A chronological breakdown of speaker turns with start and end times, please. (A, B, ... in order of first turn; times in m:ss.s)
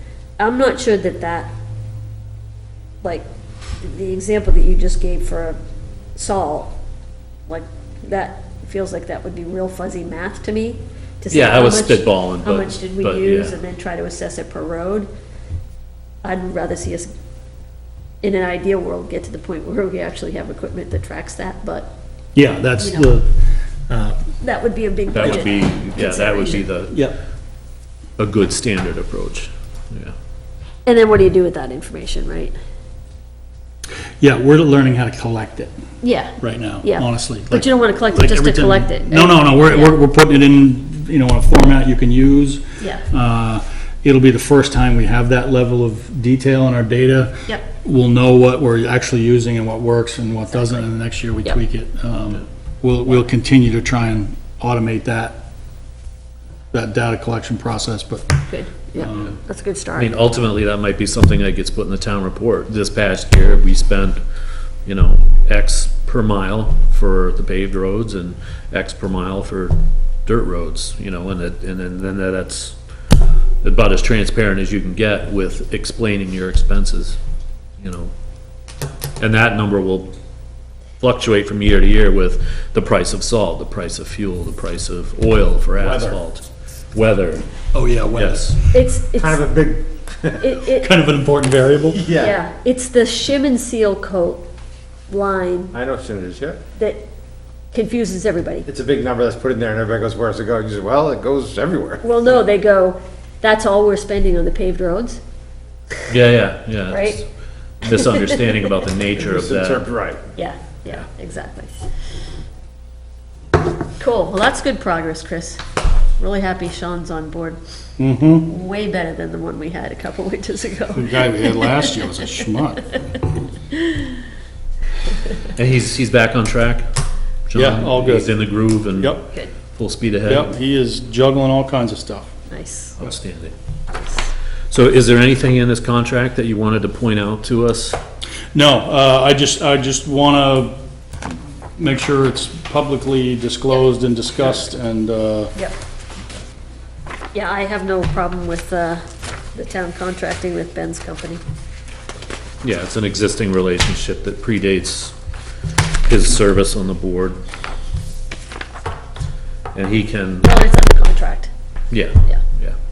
0:00.4-0:01.5 A
0:03.8-0:05.6 A
0:06.2-0:06.8 A
0:07.5-0:15.1 A
0:11.3-0:13.6 B
0:16.2-0:17.1 A
0:18.2-0:21.9 A
0:22.4-0:23.3 C
0:22.8-0:23.1 A
0:23.9-0:24.2 C
0:24.4-0:26.7 A
0:25.1-0:27.0 B
0:26.9-0:27.2 C
0:28.2-0:30.1 B
0:30.9-0:32.6 A
0:34.2-0:35.7 C
0:36.0-0:40.0 A
0:36.4-0:55.4 C
0:42.8-0:43.0 A
0:50.5-0:50.9 A
0:56.7-0:58.3 C
0:58.5-1:00.1 A
0:59.0-0:59.3 C
1:00.0-1:04.2 B
1:04.9-1:12.8 B
1:13.6-1:17.2 B
1:17.8-1:18.1 B
1:19.2-1:20.1 B
1:21.0-1:27.4 B
1:25.8-1:26.2 D
1:27.7-1:28.6 C
1:28.1-1:28.6 B
1:28.7-1:29.4 A
1:29.2-1:30.4 D
1:30.4-1:30.9 A
1:30.8-1:32.0 C
1:31.9-1:32.4 D
1:32.1-1:34.4 A
1:35.1-1:35.7 A
1:35.7-1:36.6 D
1:36.8-1:37.0 A
1:37.7-1:38.7 A
1:38.7-1:42.0 D
1:42.0-1:45.2 A
1:46.1-1:47.3 B
1:46.9-1:47.2 A
1:47.8-1:49.8 B
1:49.2-1:50.2 D
1:50.4-1:51.9 A
1:54.0-1:55.6 A
1:56.2-1:57.6 A
1:58.0-1:58.5 C
1:58.5-2:01.9 A
2:00.9-2:03.0 C
2:03.7-2:04.1 A
2:05.5-2:06.9 B
2:07.5-2:09.2 B
2:07.6-2:08.3 C
2:09.0-2:09.2 C
2:09.7-2:10.5 B
2:10.3-2:12.3 C
2:12.5-2:13.0 A
2:13.0-2:13.5 B
2:14.7-2:18.0 B
2:18.5-2:20.8 C
2:21.3-2:25.5 C
2:27.3-2:29.0 A
2:29.5-2:31.4 A
2:32.6-2:35.1 B
2:36.1-2:37.4 B
2:39.7-2:40.5 B
2:40.4-2:41.5 A
2:41.9-2:42.8 B